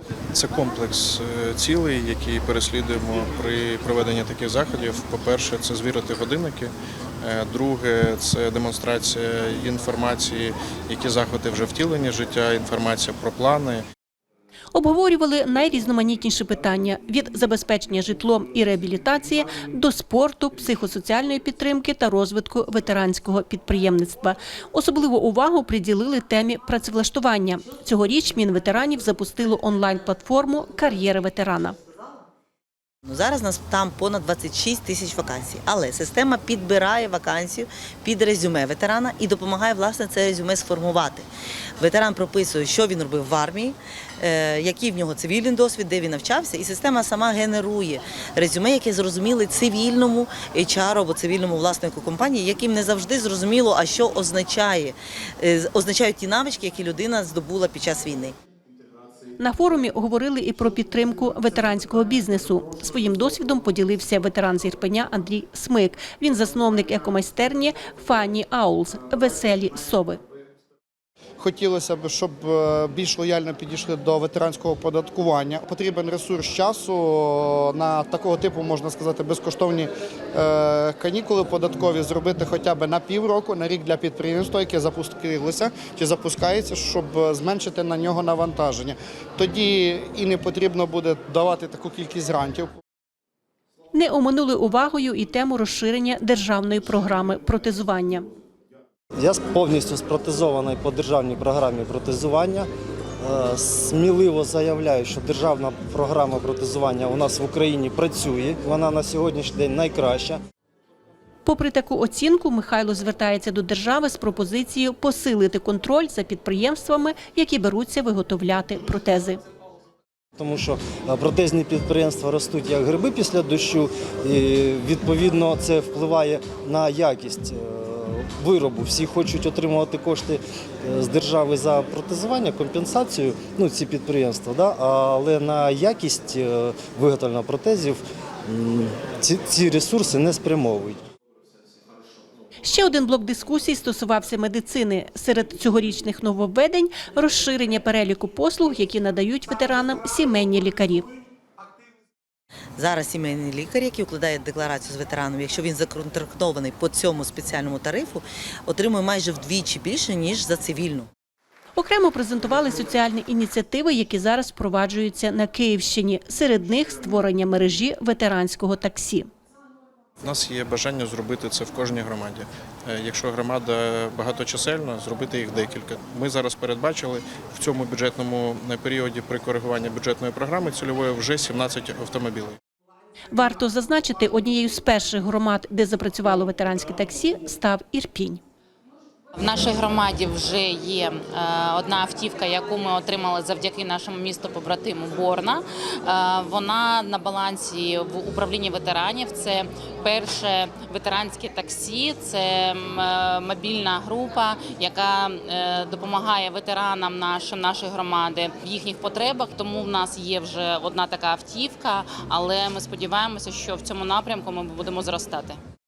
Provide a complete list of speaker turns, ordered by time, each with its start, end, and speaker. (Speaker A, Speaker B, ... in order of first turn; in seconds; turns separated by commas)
Speaker A: 0.3-13.8, Speaker B: 14.7-31.8, Speaker C: 33.0-58.4, Speaker B: 59.4-70.2, Speaker D: 71.4-92.7, Speaker B: 93.9-98.3, Speaker E: 99.2-102.7, Speaker E: 103.2-110.4, Speaker B: 111.5-119.4, Speaker E: 120.4-141.0, Speaker B: 142.6-151.1, Speaker C: 152.8-161.1, Speaker B: 161.8-169.3, Speaker A: 170.2-182.6, Speaker B: 183.3-188.4, Speaker F: 189.4-215.6